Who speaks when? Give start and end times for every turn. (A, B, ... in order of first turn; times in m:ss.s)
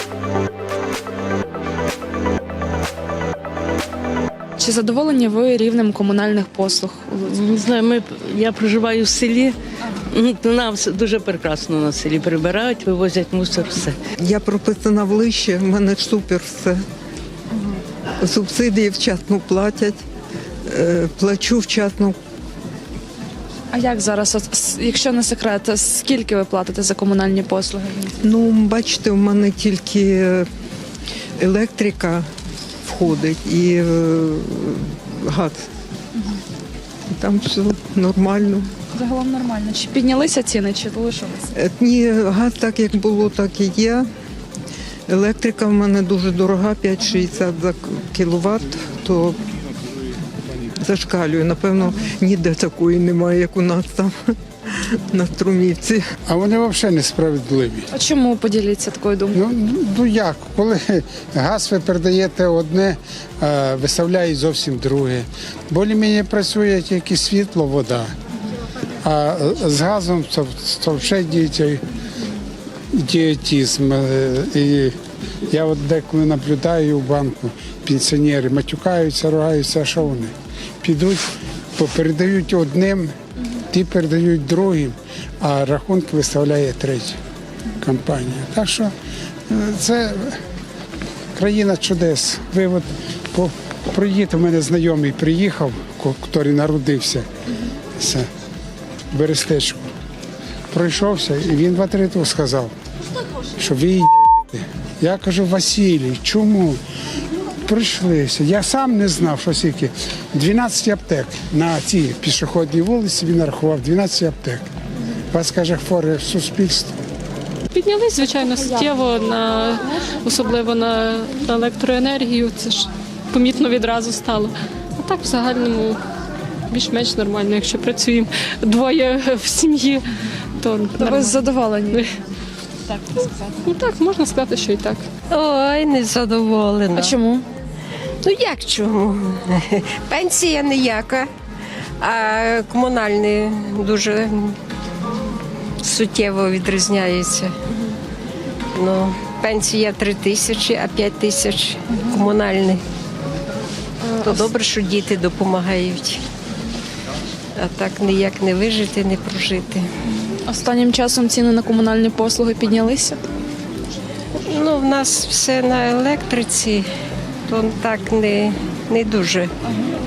0:04.6-0:07.4 A
0:07.3-0:09.6 B
0:10.1-0:14.0 B
0:14.2-0:16.8 C
0:18.2-0:20.0 C
0:20.7-0:22.2 C
0:23.7-0:28.2 A
0:28.2-0:30.4 C
0:31.4-0:32.2 C
0:32.8-0:35.7 C
0:37.1-0:38.7 C
0:38.9-0:41.5 A
0:41.5-0:44.0 C
0:45.1-0:49.5 C
0:50.8-0:56.0 C
0:56.2-0:57.9 D
0:57.9-0:59.4 A
0:59.3-1:08.1 D
1:09.0-1:11.8 D
1:12.9-1:27.2 D
1:27.8-1:28.9 D
1:29.5-1:30.4 D
1:31.3-1:37.3 D
1:38.0-1:38.3 D
1:39.1-1:39.9 D
1:40.7-1:42.7 D
1:43.5-1:46.8 D
1:47.6-1:54.7 D
1:55.3-1:57.0 D
1:57.7-2:06.0 E
2:06.7-2:10.0 E
2:10.6-2:12.1 E
2:11.0-2:12.1 A
2:13.1-2:15.0 E
2:15.3-2:17.2 F
2:16.9-2:17.4 A
2:18.2-2:21.3 F
2:22.0-2:24.6 F
2:25.8-2:27.6 F
2:28.7-2:32.8 F
2:34.0-2:34.5 A
2:34.2-2:36.2 F
2:37.5-2:39.9 F
2:40.4-2:43.2 A
2:44.5-2:46.9 F
2:47.4-2:49.5 F